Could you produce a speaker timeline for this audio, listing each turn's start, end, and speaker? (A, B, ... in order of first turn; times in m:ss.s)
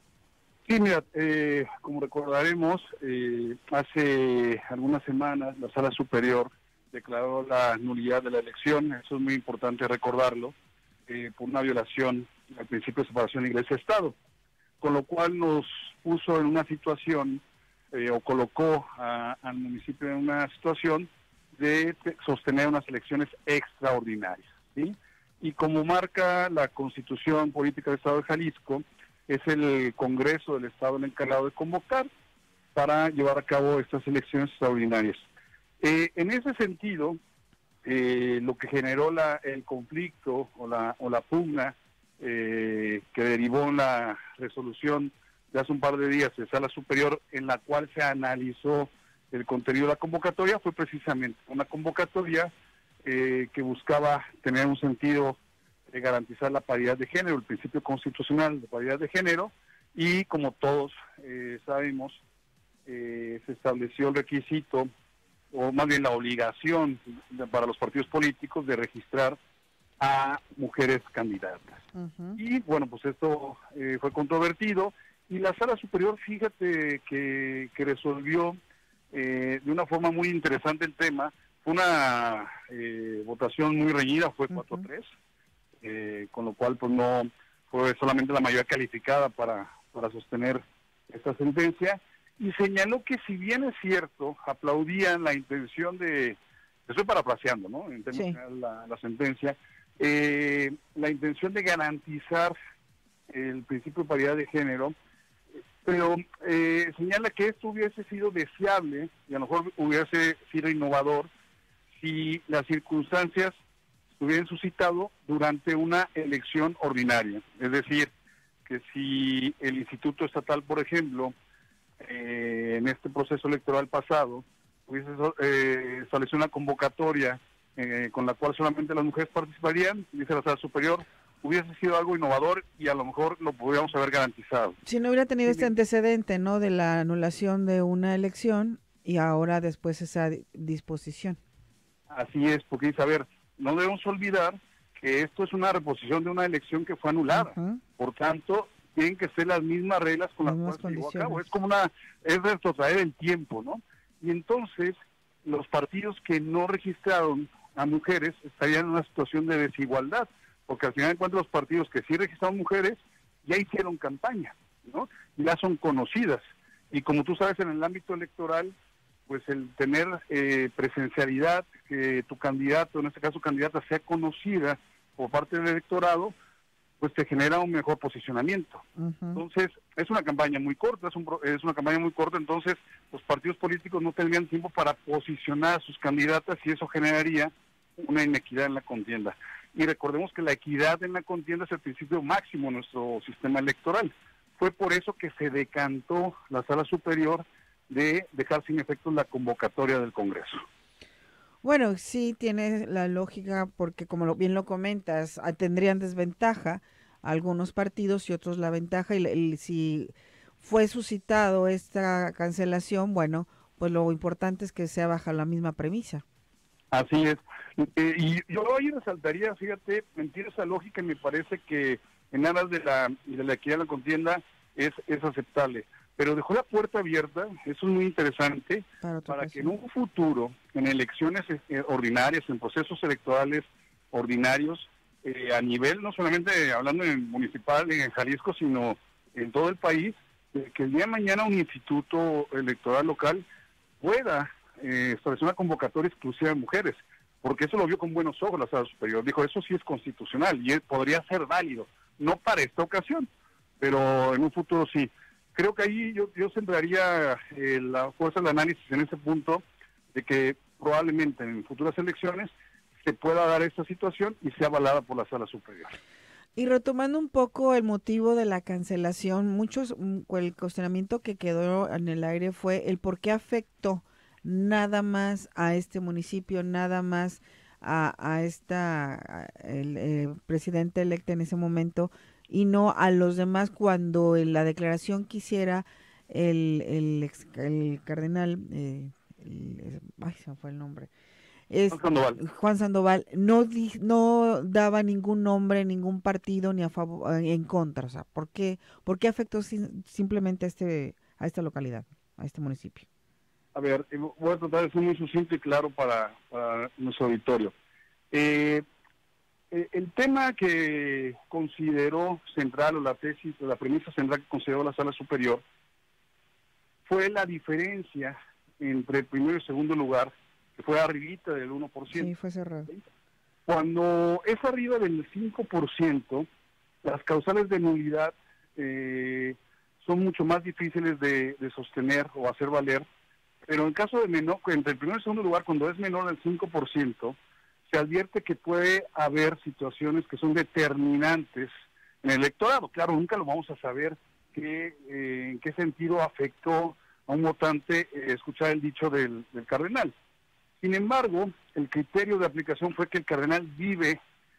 0:00.6-0:10.5 A
0:11.1-0:14.2 A
0:14.8-0:32.1 A
0:32.7-0:35.2 A
0:35.8-0:37.2 A
0:37.8-0:52.5 A
0:53.0-0:55.4 A
0:55.9-1:02.2 A
1:02.9-1:04.9 A
1:05.5-1:09.4 A
1:10.0-1:11.8 A
1:11.9-1:12.4 B
1:12.4-1:18.6 A
1:19.1-1:25.1 A
1:25.8-1:42.6 A
1:43.3-1:44.9 A
1:45.8-1:51.3 A
1:52.0-1:53.5 A
1:54.2-1:58.1 A
1:58.6-2:01.3 A
2:02.0-2:14.8 A
2:14.8-2:21.4 B
2:22.1-2:48.7 A
2:27.3-2:27.8 B
2:30.4-2:31.4 B
2:49.3-2:56.3 A
2:57.0-3:20.6 A
2:59.0-2:59.4 B
3:21.6-3:36.2 B
3:36.9-4:03.4 A
3:49.0-3:49.7 B
4:04.0-4:13.3 A
4:13.8-4:19.6 A
4:20.1-4:22.5 A
4:23.0-4:25.9 A
4:26.6-4:51.1 B
4:51.7-5:03.0 B
4:51.9-4:52.4 A
5:03.7-5:07.7 A
5:08.3-5:08.8 A
5:09.7-5:15.6 A
5:17.0-5:22.3 A
5:22.1-5:22.9 B
5:23.7-5:26.5 A
5:27.0-5:33.0 A
5:33.7-5:37.4 A
5:37.9-5:41.7 A
5:42.2-5:50.1 A
5:50.8-5:54.2 A